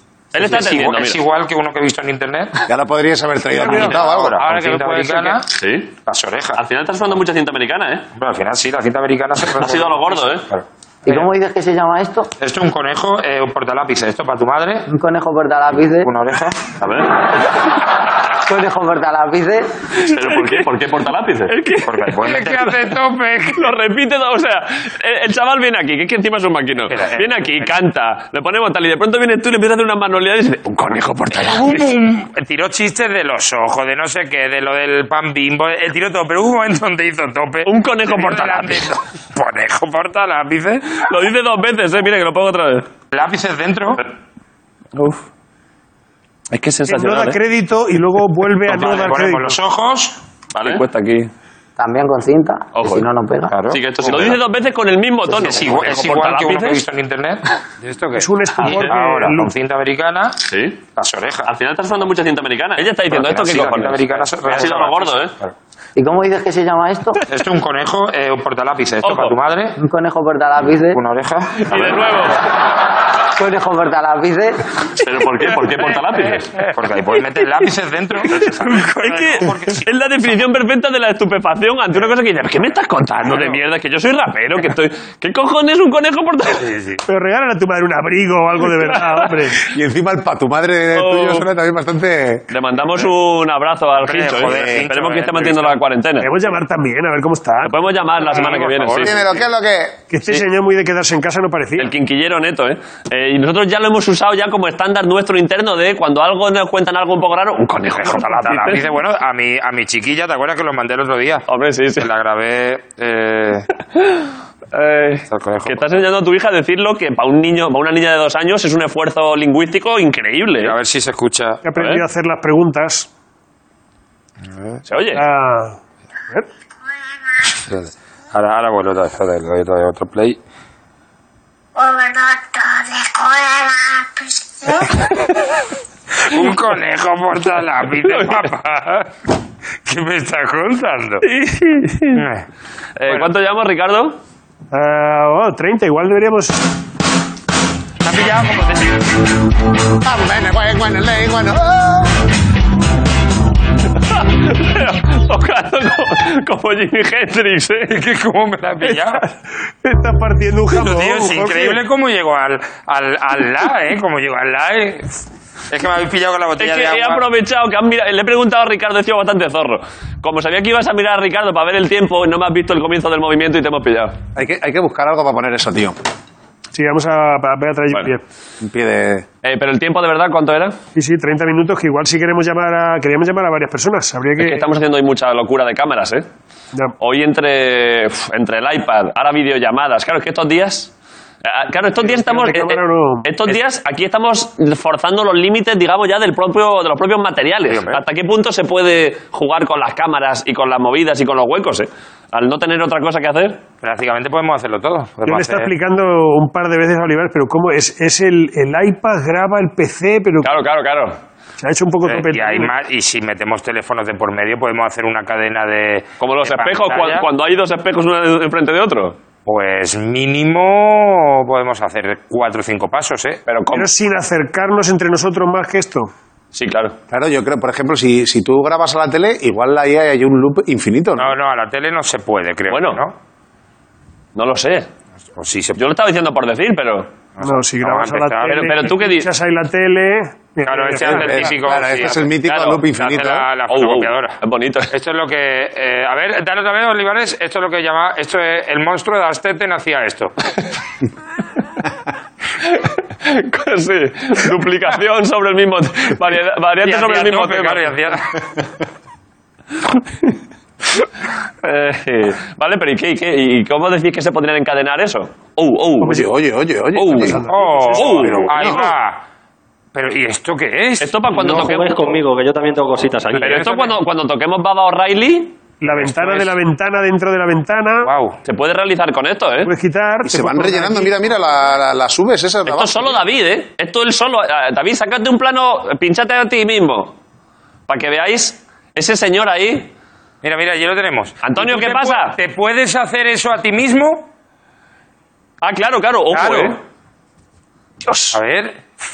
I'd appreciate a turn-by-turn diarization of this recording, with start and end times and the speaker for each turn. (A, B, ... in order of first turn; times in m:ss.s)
0:00.3-0:01.2 A
0:00.4-0:02.5 B
0:02.7-0:04.6 C
0:03.6-0:05.5 B
0:04.4-0:05.3 D
0:05.4-0:05.9 A
0:06.0-0:06.6 B
0:06.5-0:08.0 A
0:08.2-0:11.3 B
0:09.6-0:10.4 A
0:11.0-0:12.3 E
0:12.4-0:14.8 B
0:14.8-0:16.1 E
0:16.0-0:16.7 B
0:16.8-0:17.2 A
0:18.4-0:19.7 E
0:19.9-0:22.8 A
0:21.8-0:23.7 B
0:23.5-0:31.9 A
0:26.9-0:27.8 B
0:31.4-0:41.0 B
0:37.6-0:38.9 A
0:40.9-0:42.9 A
0:43.1-0:44.0 B
0:44.9-0:45.2 A
0:46.5-0:47.4 A
0:46.9-0:49.6 F
0:48.6-0:50.2 B
0:50.5-0:51.3 A
0:51.8-0:53.6 E
0:52.7-0:53.0 A
0:53.5-0:54.4 B
0:53.7-0:56.8 A
0:55.3-1:00.4 B
0:58.2-0:59.5 F
0:58.5-0:58.9 A
1:00.4-1:00.8 A
1:01.0-1:01.5 B
1:01.4-1:05.3 A
1:03.0-1:05.5 B
1:06.0-1:07.2 E
1:07.2-1:09.7 B
1:09.0-1:09.4 A
1:09.8-1:11.0 E
1:10.9-1:12.0 B
1:11.6-1:12.4 A
1:13.3-1:14.6 E
1:14.9-1:16.5 A
1:15.6-1:20.2 B
1:18.2-1:26.7 A
1:26.6-1:27.0 B
1:27.1-1:29.6 F
1:28.7-1:29.3 A
1:29.6-1:32.5 C
1:30.9-1:31.4 A
1:32.5-1:36.3 A
1:34.0-1:35.8 B
1:34.5-1:34.8 C
1:36.2-1:37.8 F
1:37.6-1:39.3 A
1:38.3-1:38.6 F
1:38.3-1:39.2 B
1:38.9-1:40.0 C
1:40.1-1:41.9 F
1:41.8-1:48.8 A
1:48.0-1:51.4 B
1:51.5-1:52.1 A
1:52.0-1:53.7 B
1:53.9-2:00.7 A
1:55.3-1:55.9 B
2:00.6-2:01.6 B
2:01.6-2:03.1 F
2:01.8-2:02.0 A
2:04.5-2:04.8 B
2:04.9-2:05.2 A
2:05.1-2:05.8 F
2:07.5-2:10.4 B
2:11.8-2:14.0 B
2:16.2-2:19.1 B
2:18.0-2:18.5 A
2:19.8-2:21.2 B
2:21.2-2:22.2 A
2:22.1-2:22.4 B
2:23.0-2:24.2 A
2:24.7-2:26.6 F
2:28.0-2:29.0 B
2:30.0-2:32.2 C
2:33.9-2:38.0 A
2:37.9-2:39.2 B
2:38.9-2:39.2 F
2:39.8-2:41.8 F
2:40.7-2:45.1 B
2:45.7-2:47.2 B
2:46.6-2:54.2 A
2:54.3-2:56.0 C
2:56.7-2:58.2 F
2:58.6-2:59.2 C
2:59.4-3:00.8 A
3:00.9-3:04.6 F
3:04.4-3:06.3 A
3:07.0-3:10.9 A
3:11.4-3:23.6 A
3:12.0-3:13.5 F
3:17.7-3:18.0 B
3:23.8-3:25.7 B
3:25.2-3:30.5 F
3:30.4-3:31.2 A
3:31.6-3:32.7 F
3:32.0-3:37.3 B
3:36.2-3:39.2 A
3:39.4-3:43.4 B
3:43.5-3:43.9 A
3:43.7-3:46.1 F
3:46.5-3:47.0 A
3:47.1-3:51.4 C
3:51.2-3:53.1 B
3:52.7-3:53.0 A
3:54.3-3:54.9 A
3:55.4-3:55.8 B
3:55.8-3:57.1 A
3:57.4-3:58.8 B
3:57.4-4:01.5 F
3:58.5-3:59.3 A
4:00.6-4:02.3 B
4:01.0-4:03.5 C
4:02.4-4:04.9 A
4:03.0-4:04.4 B
4:04.9-4:10.3 B
4:12.6-4:18.0 A
4:16.8-4:18.4 B
4:21.6-4:26.2 A
4:26.0-4:26.3 F
4:26.0-4:27.4 C
4:26.9-4:27.4 A
4:27.1-4:28.9 F
4:27.5-4:29.2 B
4:28.0-4:28.5 A
4:28.2-4:28.8 C
4:29.9-4:31.1 B
4:31.0-4:32.0 A
4:31.3-4:33.7 D
4:33.4-4:36.6 A
4:33.4-4:33.8 B
4:35.8-4:38.1 F
4:38.0-4:38.4 B
4:38.4-4:39.7 A
4:39.6-4:41.2 F
4:40.2-4:43.2 C
4:42.6-4:47.2 A
4:47.9-4:49.9 A
4:50.4-4:54.3 B
4:51.4-4:52.4 A
4:55.6-4:56.8 A
4:56.3-4:56.8 B
4:58.0-4:58.4 A
4:58.3-4:58.8 B